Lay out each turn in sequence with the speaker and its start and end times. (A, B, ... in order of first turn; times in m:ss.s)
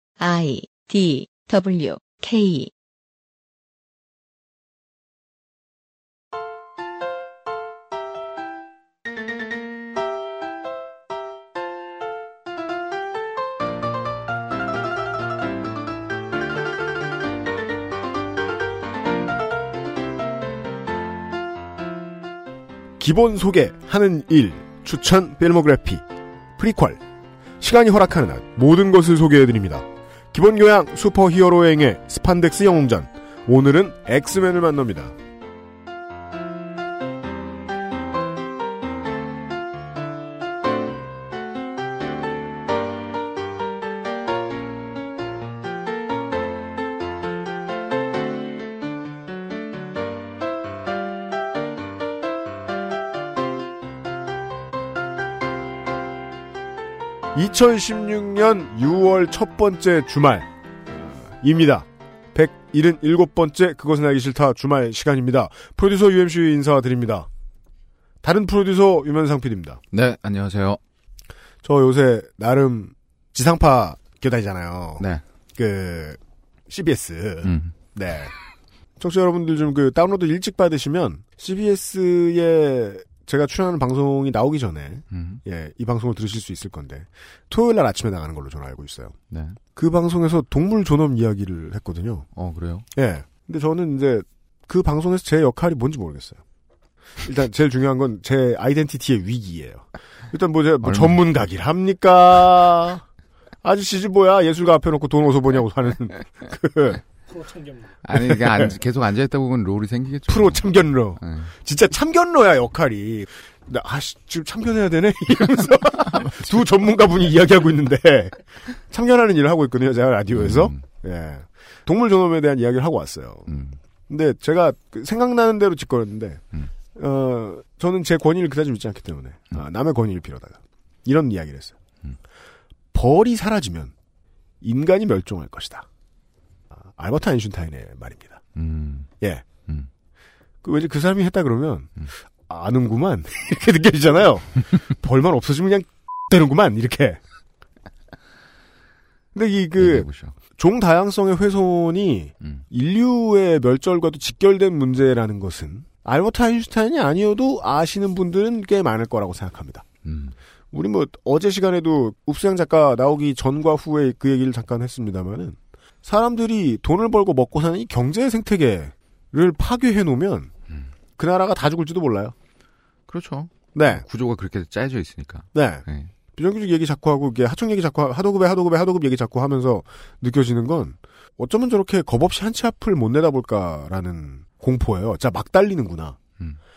0:00.2-0:02.7 A
0:23.0-0:26.0 B
0:26.6-0:27.0 B
0:27.6-0:35.1 B
0:57.3-1:07.3 B
1:08.2-1:09.8 B
1:09.9-1:10.8 C
1:11.6-1:15.0 B
1:15.6-1:18.3 B
1:17.4-1:17.7 C
1:19.0-1:29.2 B
1:25.1-1:25.4 C
1:29.3-1:29.6 C
1:29.8-1:32.3 B
1:32.4-1:32.9 C
1:33.0-1:36.4 B
1:37.2-1:43.0 B
1:40.8-1:41.3 C
1:43.6-1:47.0 B
1:48.0-1:51.5 C
1:48.1-1:48.7 B
1:50.3-1:58.4 B
1:58.9-2:03.5 B
2:00.4-2:00.8 C
2:03.5-2:03.8 C
2:04.1-2:11.8 B
2:12.9-2:13.9 B
2:14.6-2:15.9 B
2:16.8-2:18.4 B
2:18.6-2:19.1 C
2:20.6-2:21.9 B
2:22.5-2:27.2 B
2:29.3-2:39.9 B
2:29.8-2:30.3 C
2:40.0-2:40.4 C
2:40.7-2:50.5 B
2:51.2-2:52.3 B
2:53.1-2:56.1 C
2:53.8-2:54.0 B
2:55.5-3:06.2 B